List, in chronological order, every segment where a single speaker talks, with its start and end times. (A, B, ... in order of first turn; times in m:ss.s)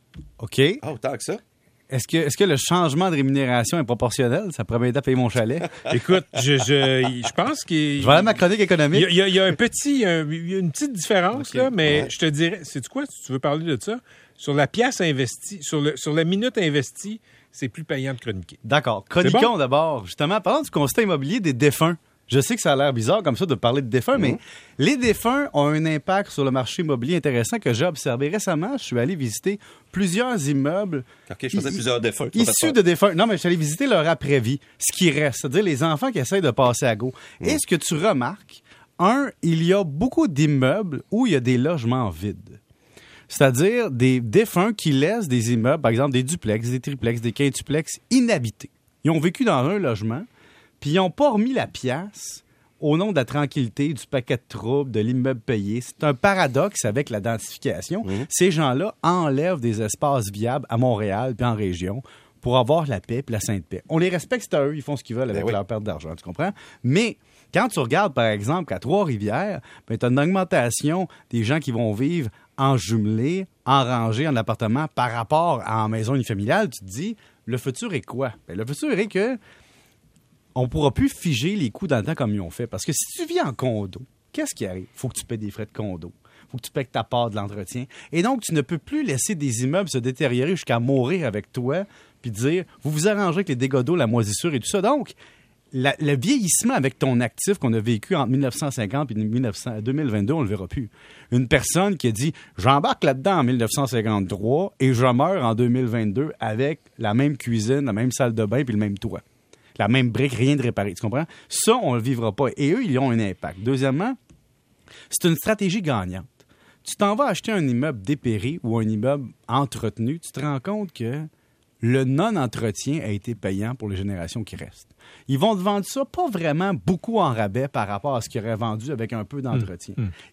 0:00.4-0:00.8 A
0:00.8-0:01.4 B
0:01.9-0:05.8 A
0:05.9-0:08.4 C
0:08.0-0:09.1 A
0:08.9-0:18.6 C
0:11.3-0:11.7 A
0:11.8-0:12.1 B
0:18.6-0:31.8 A
0:19.2-0:19.5 C
0:31.3-0:32.8 B
0:32.3-0:42.6 A
0:43.3-0:50.3 A
0:50.8-1:19.4 A
1:20.6-1:35.2 A
1:35.7-1:49.2 A
1:49.8-1:54.2 A
1:55.1-1:56.3 A
1:56.8-2:01.3 A
2:01.8-2:10.0 A
2:09.5-2:10.1 C